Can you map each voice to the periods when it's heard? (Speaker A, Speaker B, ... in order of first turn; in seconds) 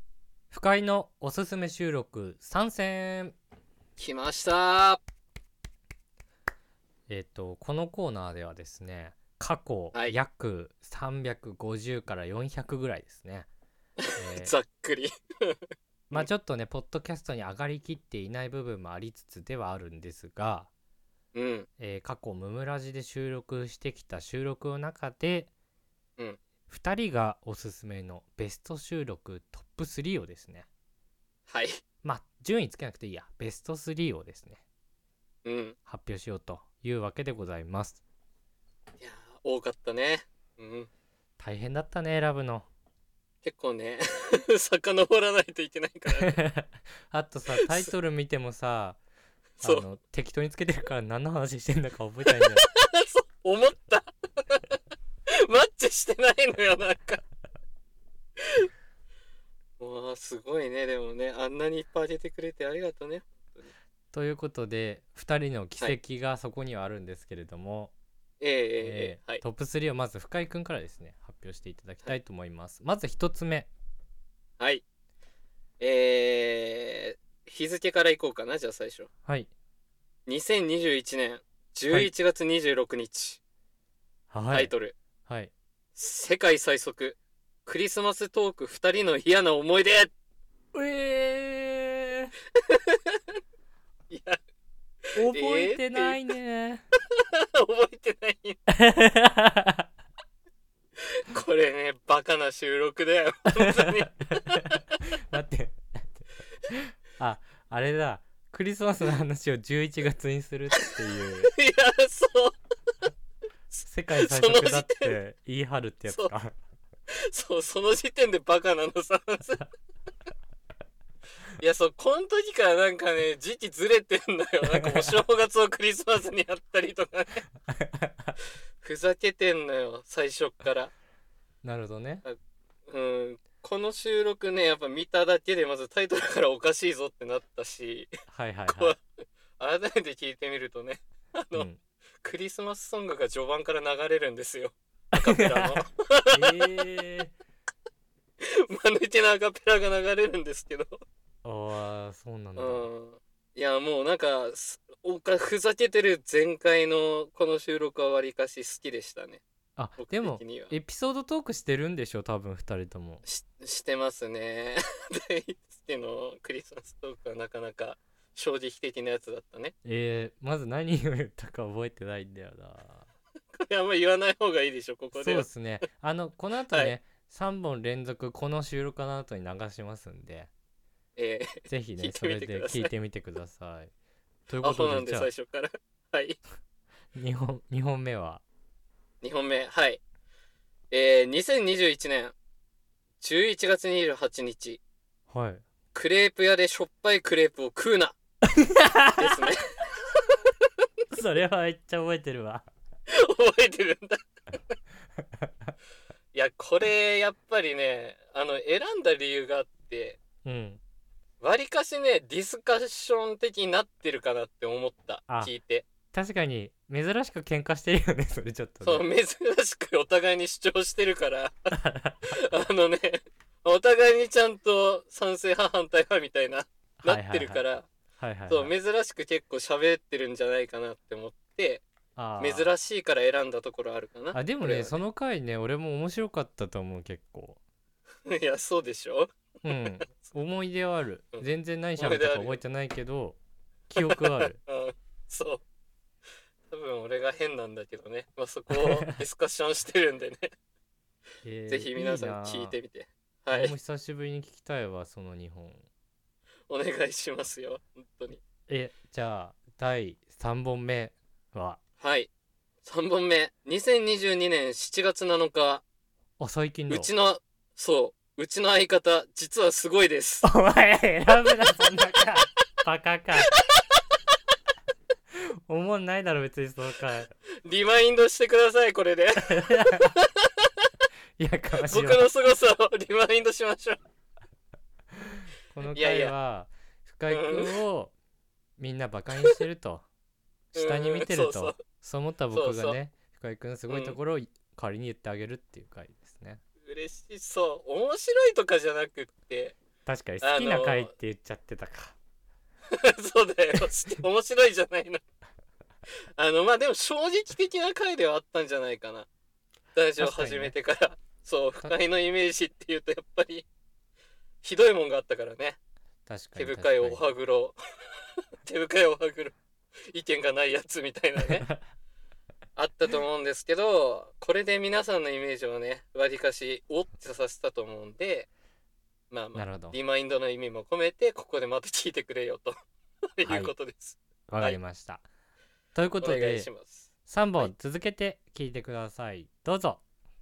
Speaker A: 0.5-3.4, 7.1-13.5, 14.2-14.5, 16.1-20.7, 21.8-25.5, 26.7-30.7, 32.0-34.6, 35.9-38.0, 41.4-42.7, 46.3-49.0, 49.6-52.6, 64.1-67.9, 68.8-73.7, 79.3-79.5, 84.3-84.7, 85.3-85.5, 90.7-92.3, 95.2-96.8, 98.7-99.9, 103.5-104.0, 105.3-111.5, 113.8-116.5, 127.7-128.3, 131.6-132.2, 138.3-138.9, 141.5-141.8, 145.2-145.8, 146.3-147.3, 151.4-152.9, 159.8-163.2, 169.8-173.1, 175.1-180.5, 181.7-183.9, 184.5-185.3, 187.2-188.4, 195.3-195.6, 198.6-199.5, 201.1-202.7, 210.4-210.8, 216.1-219.1, 221.7-222.3, 227.0-227.6, 228.2-228.7, 232.2-232.7, 234.3-237.6, 239.6-243.4, 243.9-244.6, 248.7-249.2, 251.4-252.8, 253.5-255.9, 258.7-261.8, 266.4-267.1, 270.4-273.5, 275.7-277.3, 279.4-280.2, 281.4-282.3, 285.7-288.1, 288.8-290.1, 290.7-296.6, 300.1-302.2, 310.2-310.8, 316.3-317.2, 329.6-330.0, 333.4-333.7, 334.5-335.3, 335.9-336.7, 337.3-340.0
Speaker B: 4.0-5.0, 14.0-15.6, 21.3-21.7, 31.5-31.8, 35.5-35.8, 39.0-40.9, 43.4-46.4, 49.6-49.9, 52.6-54.8, 55.5-57.2, 59.8-63.7, 68.4-69.4, 74.6-74.8, 75.8-79.1, 80.3-83.4, 84.5-85.0, 86.0-90.1, 92.7-93.2, 94.1-94.4, 95.3-96.2, 97.2-98.6, 101.3-104.8, 111.5-112.6, 113.8-115.2, 116.1-116.3, 117.3-119.7, 121.6-127.4, 128.8-130.9, 132.9-138.1, 138.7-139.0, 139.6-141.7, 142.2-146.4, 148.4-150.9, 152.6-159.4, 160.0-160.7, 163.2-169.7, 173.6-175.5, 176.7-177.0, 181.2-182.9, 184.6-186.4, 189.2-190.0, 190.9-192.3, 193.2-194.8, 195.9-198.2, 199.2-200.2, 203.2-204.2, 206.3-210.2, 211.4-215.9, 218.8-221.7, 222.3-227.9, 228.5-231.8, 232.4-235.0, 238.3-240.3, 242.0-242.6, 244.0-245.6, 246.7-250.5, 251.7-253.8, 256.7-258.4, 262.0-262.3, 262.8-265.8, 266.9-270.5, 277.6-280.7, 281.9-284.0, 285.8-286.4, 287.3-287.8, 290.8-291.8, 292.5-293.0, 293.9-294.2, 296.8-299.8, 300.4-301.1, 303.0-305.2, 306.4-309.3, 309.9-313.6, 314.6-315.8, 316.6-317.8, 318.6-319.6, 320.1-321.7, 322.8-328.5, 329.3-332.8, 333.4-334.8, 336.2-337.7